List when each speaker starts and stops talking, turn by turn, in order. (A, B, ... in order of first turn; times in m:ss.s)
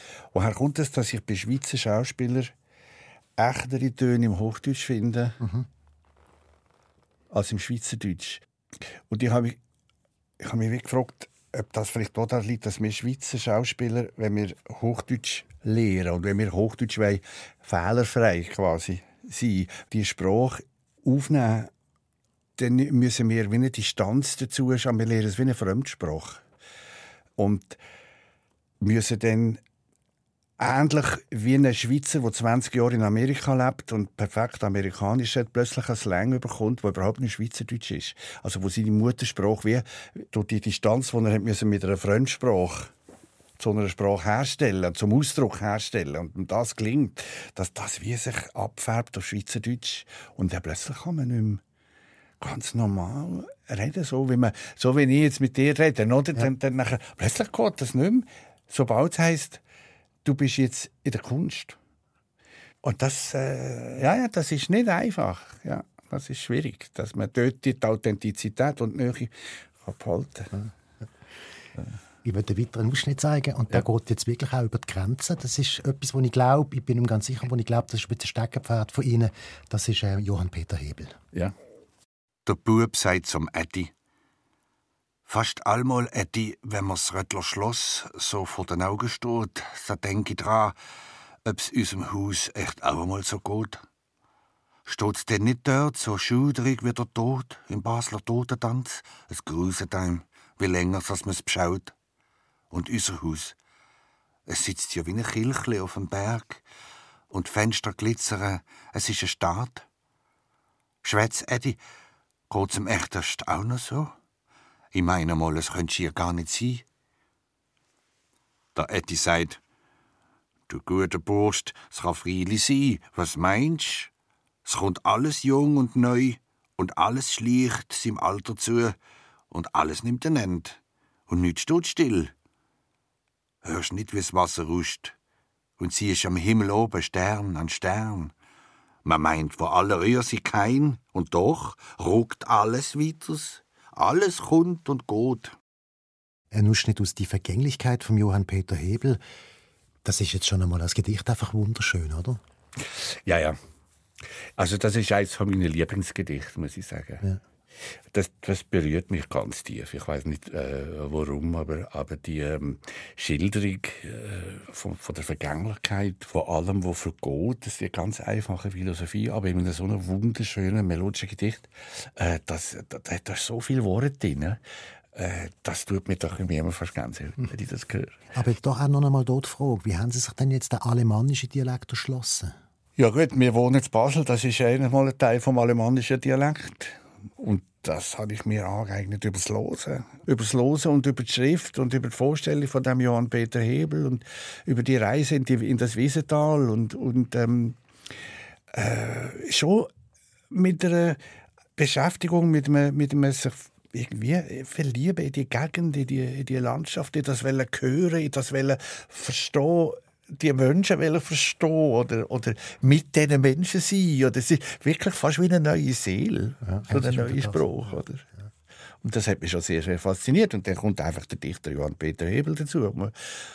0:00.3-0:02.5 A
0:03.4-0:05.4 A
0:07.3-0:08.4 A
0:09.1-0:09.6 A
0:10.4-0:21.7 A
0:22.6-0:26.4 A
0:27.4-0:27.8 A
0:28.8-0:29.6 A
0:30.6-0:42.9 A
0:43.6-0:51.6 A
0:52.4-0:59.6 A
1:00.2-1:01.8 A
1:02.8-1:10.6 A
1:12.2-1:21.2 B
1:22.4-1:23.9 C
1:25.3-1:30.7 C
1:31.4-1:33.8 C
1:34.8-1:41.9 C
1:42.7-1:43.5 C
1:44.5-1:46.6 C
1:47.3-1:49.8 C
1:51.0-1:51.8 C
1:52.5-1:54.1 C
1:54.9-1:56.8 C
1:58.8-1:59.6 C
2:00.7-2:04.1 C
2:04.6-2:09.0 C
2:09.5-2:12.3 C
2:13.6-2:15.1 C
2:15.8-2:18.3 C
2:19.0-2:25.5 C
2:26.5-2:29.2 B
2:30.0-2:32.4 B
2:33.2-2:33.6 A
2:34.6-2:37.2 A
2:38.1-2:54.6 A
2:55.1-2:58.2 A
2:58.3-3:02.5 B
3:03.0-3:17.8 A
3:18.7-3:19.9 A
3:20.5-3:21.2 A
3:21.8-3:38.2 A
3:36.7-3:37.7 B
3:39.0-3:43.1 A